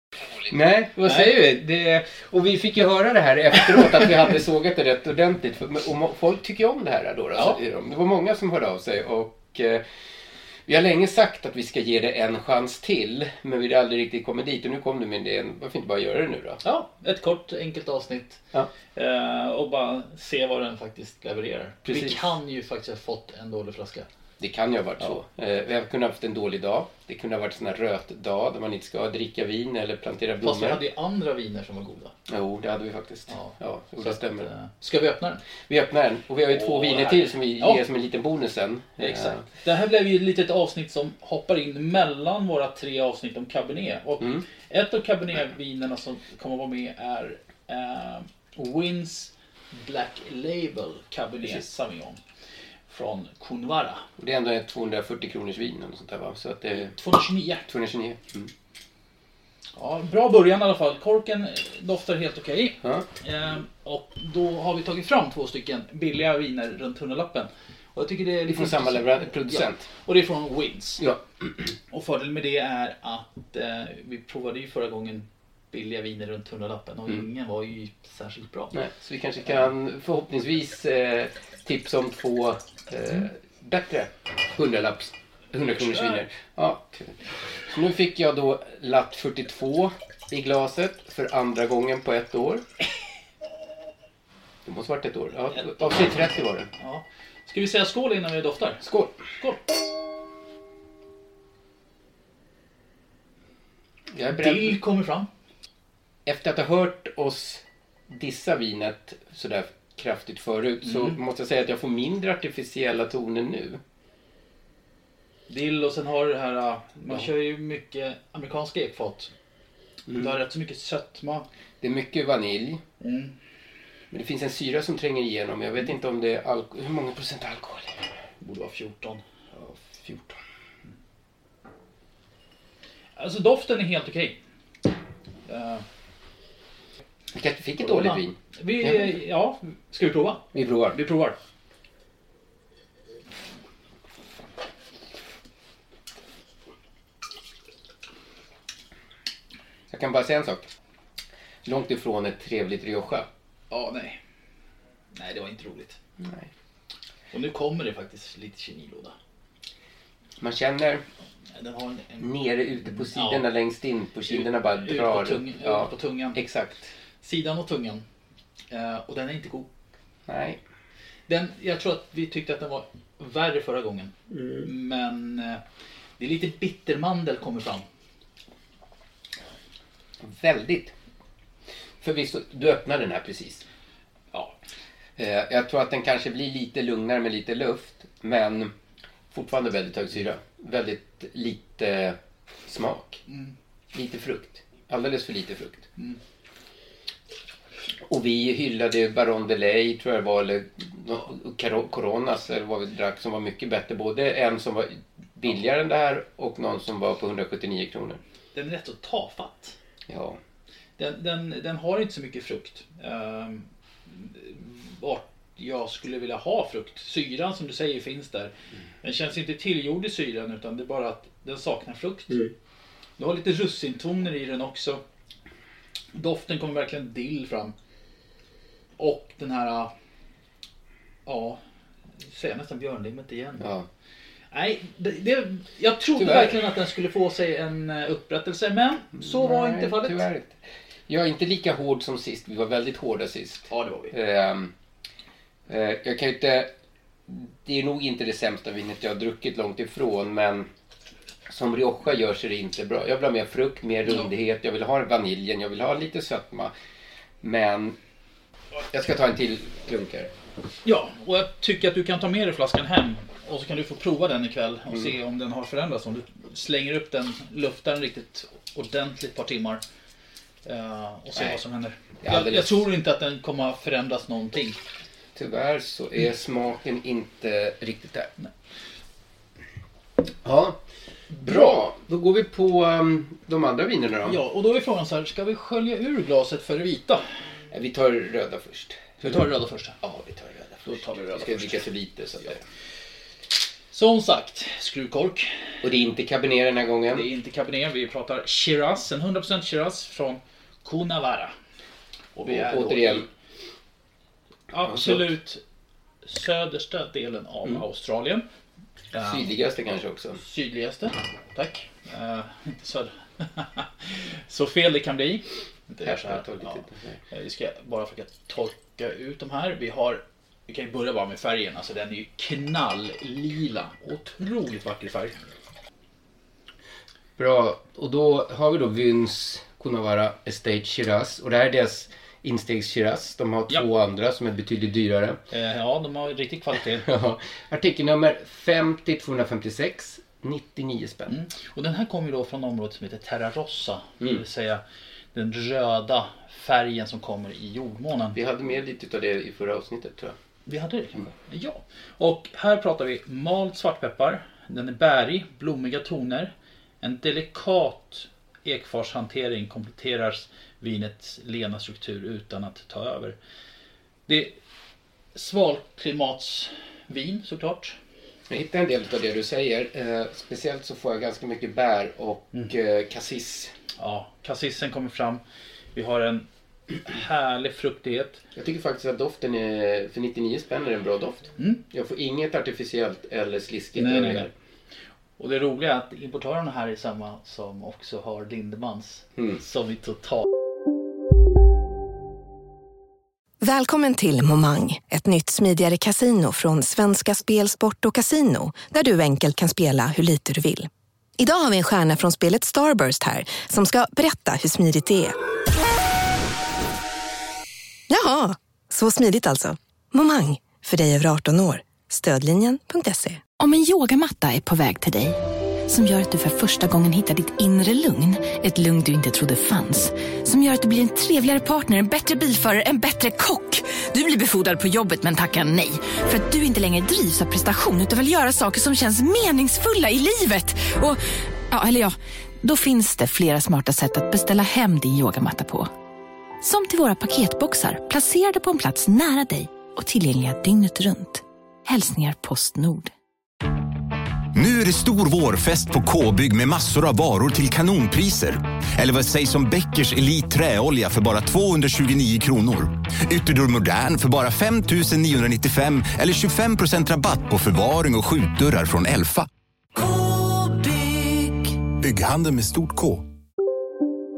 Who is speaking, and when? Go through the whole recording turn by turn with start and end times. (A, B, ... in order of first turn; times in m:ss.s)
0:00.5-0:09.8 A
0:10.7-0:16.6 A
0:16.6-0:18.4 B
0:18.9-0:24.1 B
0:21.8-0:22.4 A
0:24.4-0:30.8 A
0:30.4-0:32.1 B
0:32.3-0:34.5 A
0:33.3-0:35.4 B
0:35.7-0:39.4 A
0:36.5-0:37.8 B
0:39.0-0:52.2 B
0:52.9-0:54.0 B
0:54.2-0:57.0 A
0:56.8-0:57.7 B
0:57.6-0:58.5 A
0:59.8-1:11.0 B
1:02.8-1:03.1 A
1:08.5-1:09.9 A
1:11.9-1:18.8 B
1:18.7-1:32.6 A
1:34.6-1:36.7 A
1:35.5-1:38.8 B
1:38.8-1:39.1 A
1:39.4-1:39.6 B
1:44.1-1:44.8 A
1:44.3-1:45.3 B
1:46.2-1:53.8 A
1:55.5-1:59.3 B
2:00.1-2:01.4 B
2:01.8-2:02.8 A
2:03.0-2:03.4 B
2:04.1-2:08.0 A
2:08.4-2:09.2 B
2:09.5-2:10.4 A
2:13.2-2:14.4 B
2:15.4-2:15.8 B
2:17.3-2:19.2 A
2:17.8-2:21.4 B
2:20.5-2:21.0 A
2:29.9-2:30.7 A
2:31.6-2:33.3 A
2:33.7-2:34.2 B
2:35.1-2:36.0 B
2:36.2-2:36.5 A
2:37.3-2:39.1 B
2:40.4-2:41.0 A
2:41.6-2:42.3 B
2:42.2-2:46.9 A
2:42.9-2:43.5 B
2:44.3-2:46.4 B
2:47.2-2:48.0 B
2:48.7-2:49.7 B
2:50.3-2:50.6 A
2:51.3-2:55.6 B
2:56.2-2:57.8 B
3:00.2-3:00.9 A
3:02.0-3:03.6 A
3:05.2-3:08.7 A
3:09.3-3:13.2 A
3:13.3-3:13.5 B
3:13.9-3:15.9 A
3:18.1-3:28.2 A
3:28.5-3:29.8 B
3:30.1-3:30.4 A
3:31.0-3:38.5 B
3:39.0-3:42.5 B
3:43.2-3:45.0 B
3:46.1-3:47.7 B
3:49.0-3:49.9 B
3:51.2-3:51.6 B
3:52.2-3:53.7 B
3:53.6-3:53.9 A
3:54.5-4:00.3 B
3:56.2-3:56.6 A
3:59.1-4:04.7 A
4:03.7-4:04.1 B
4:05.7-4:06.7 A
4:07.3-4:10.7 A
4:11.5-4:16.7 A
4:17.4-4:17.9 A
4:18.9-4:20.3 A
4:20.8-4:29.8 B
4:30.6-4:34.8 B
4:31.3-4:31.6 A
4:32.2-4:32.8 A
4:35.3-4:38.3 A
4:40.4-4:40.8 A
4:41.3-4:41.8 B
4:41.4-4:44.4 A
4:44.2-4:47.2 B
4:47.7-4:49.5 A
4:49.2-4:50.0 B
4:50.0-4:52.6 A
4:50.8-4:51.9 B
4:53.9-4:55.5 B
4:55.8-4:57.3 A
4:57.1-5:01.5 B
5:02.3-5:03.3 B
5:02.4-5:03.3 A
5:04.7-5:05.6 B
5:04.8-5:05.3 A
5:06.2-5:08.4 B
5:09.1-5:09.5 B
5:09.2-5:10.4 A
5:10.4-5:25.4 B
5:16.0-5:17.2 A
5:27.4-5:35.4 A
5:35.5-5:37.1 B
5:37.0-5:41.4 A
5:41.3-5:44.8 B
5:45.3-5:48.4 B
5:48.3-5:50.3 A
5:50.6-6:03.4 B
6:04.3-6:04.5 B
6:05.3-6:08.0 B
6:08.5-6:13.7 A
6:14.0-6:15.4 B
6:15.9-6:16.5 B
6:17.0-6:18.4 B
6:18.5-6:24.5 A
6:24.0-6:24.5 B
6:25.4-6:30.5 B
6:33.6-6:45.3 C
6:48.1-6:53.4 C
6:53.6-7:15.9 D
7:16.6-7:23.1 D
7:24.5-7:39.5 E
7:42.0-7:43.3 E